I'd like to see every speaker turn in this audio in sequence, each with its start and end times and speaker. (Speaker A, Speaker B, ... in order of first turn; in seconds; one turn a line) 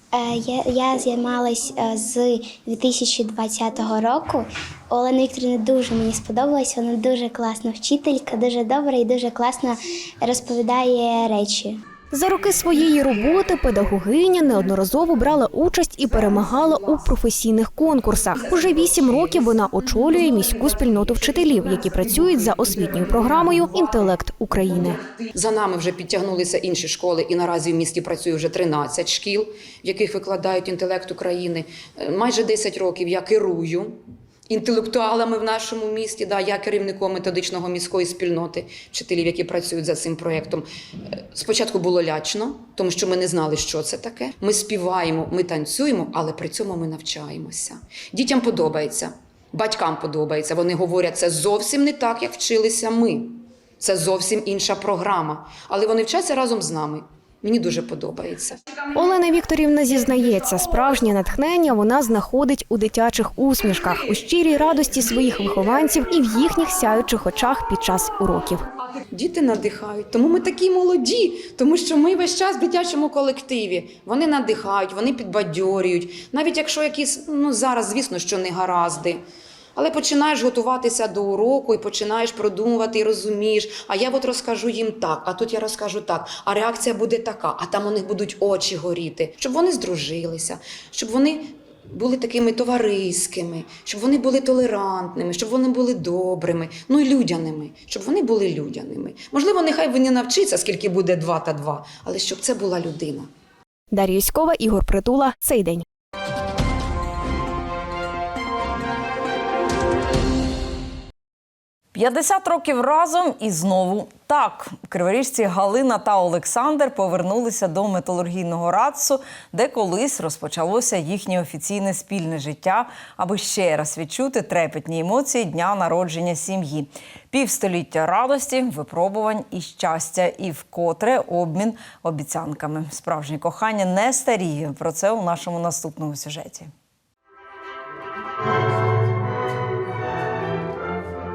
Speaker A: 0.1-11.8
Speaker B: 12.1-25.0
Speaker C: 25.3-40.6
Speaker C: 41.3-58.6
Speaker B: 59.0-68.7
Speaker C: 69.1-79.2
Speaker C: 79.8-103.3
Speaker B: 103.9-105.8
Speaker D: 111.9-136.7